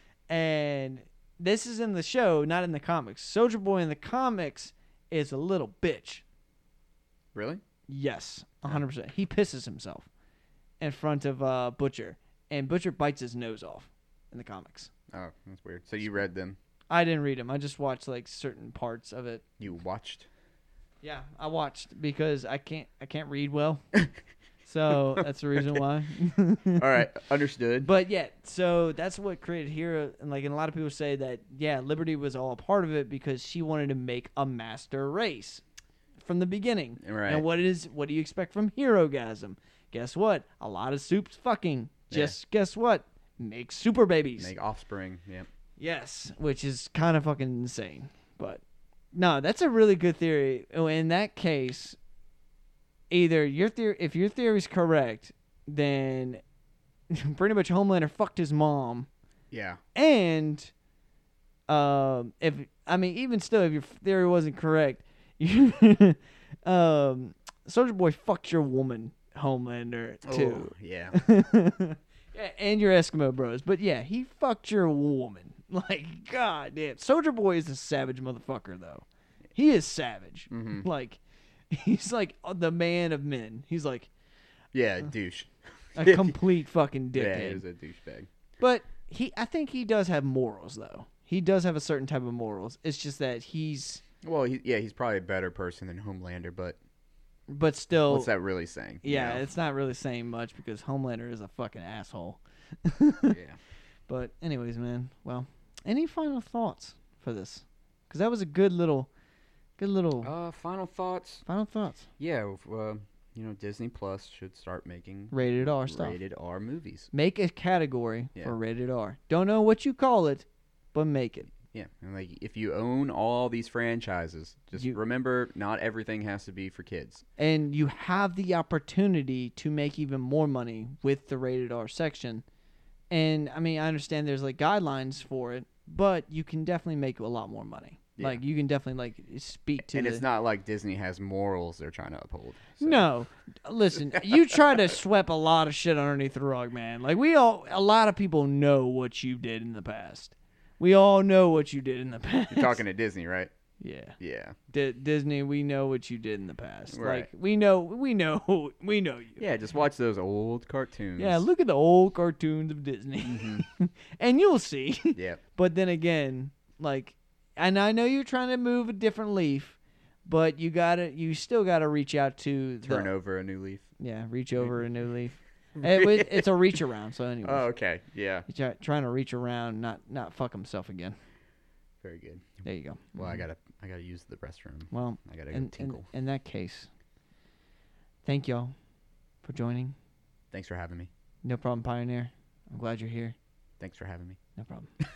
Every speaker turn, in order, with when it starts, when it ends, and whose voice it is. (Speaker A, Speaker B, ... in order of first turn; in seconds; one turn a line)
Speaker A: 0.3-6.2
Speaker B: 7.3-7.6
Speaker A: 7.9-10.1
Speaker A: 10.8-14.9
Speaker B: 15.1-16.6
Speaker A: 16.9-19.4
Speaker B: 19.6-20.3
Speaker A: 21.0-23.8
Speaker A: 24.7-27.1
Speaker B: 24.9-25.8
Speaker B: 26.8-27.9
Speaker A: 27.8-35.6
Speaker A: 36.2-44.5
Speaker B: 37.0-37.4
Speaker B: 42.1-42.4
Speaker B: 44.4-45.5
Speaker A: 45.8-48.6
Speaker A: 49.1-52.0
Speaker A: 53.1-56.4
Speaker A: 57.1-59.1
Speaker B: 59.5-59.8
Speaker A: 60.0-60.7
Speaker A: 61.7-84.1
Speaker B: 70.2-71.2
Speaker B: 80.5-80.9
Speaker B: 84.7-86.4
Speaker A: 86.0-87.6
Speaker B: 87.1-88.3
Speaker A: 88.6-94.0
Speaker B: 94.2-96.8
Speaker A: 97.5-98.3
Speaker B: 98.1-99.4
Speaker A: 99.0-103.4
Speaker B: 103.3-103.6
Speaker A: 104.1-109.1
Speaker A: 109.8-110.3
Speaker B: 110.2-111.5
Speaker A: 111.5-112.1
Speaker B: 112.2-117.1
Speaker A: 115.3-116.2
Speaker A: 117.1-121.5
Speaker B: 121.7-127.2
Speaker A: 127.4-132.4
Speaker A: 133.1-140.2
Speaker B: 139.8-143.1
Speaker A: 142.8-152.8
Speaker B: 144.1-144.9
Speaker B: 152.5-153.5
Speaker A: 153.8-154.2
Speaker B: 154.2-154.6
Speaker A: 154.7-159.4
Speaker B: 156.9-157.3
Speaker B: 159.4-161.4
Speaker A: 161.2-173.1
Speaker B: 163.2-163.7
Speaker B: 172.8-173.9
Speaker A: 174.0-177.7
Speaker B: 175.8-176.5
Speaker B: 177.4-178.5
Speaker A: 178.5-181.2
Speaker B: 182.0-182.6
Speaker A: 182.6-183.4
Speaker B: 183.2-186.1
Speaker A: 184.9-186.9
Speaker A: 188.2-188.7
Speaker A: 189.4-189.9
Speaker B: 190.5-191.1
Speaker A: 191.4-193.3
Speaker B: 193.8-194.4
Speaker A: 194.6-194.9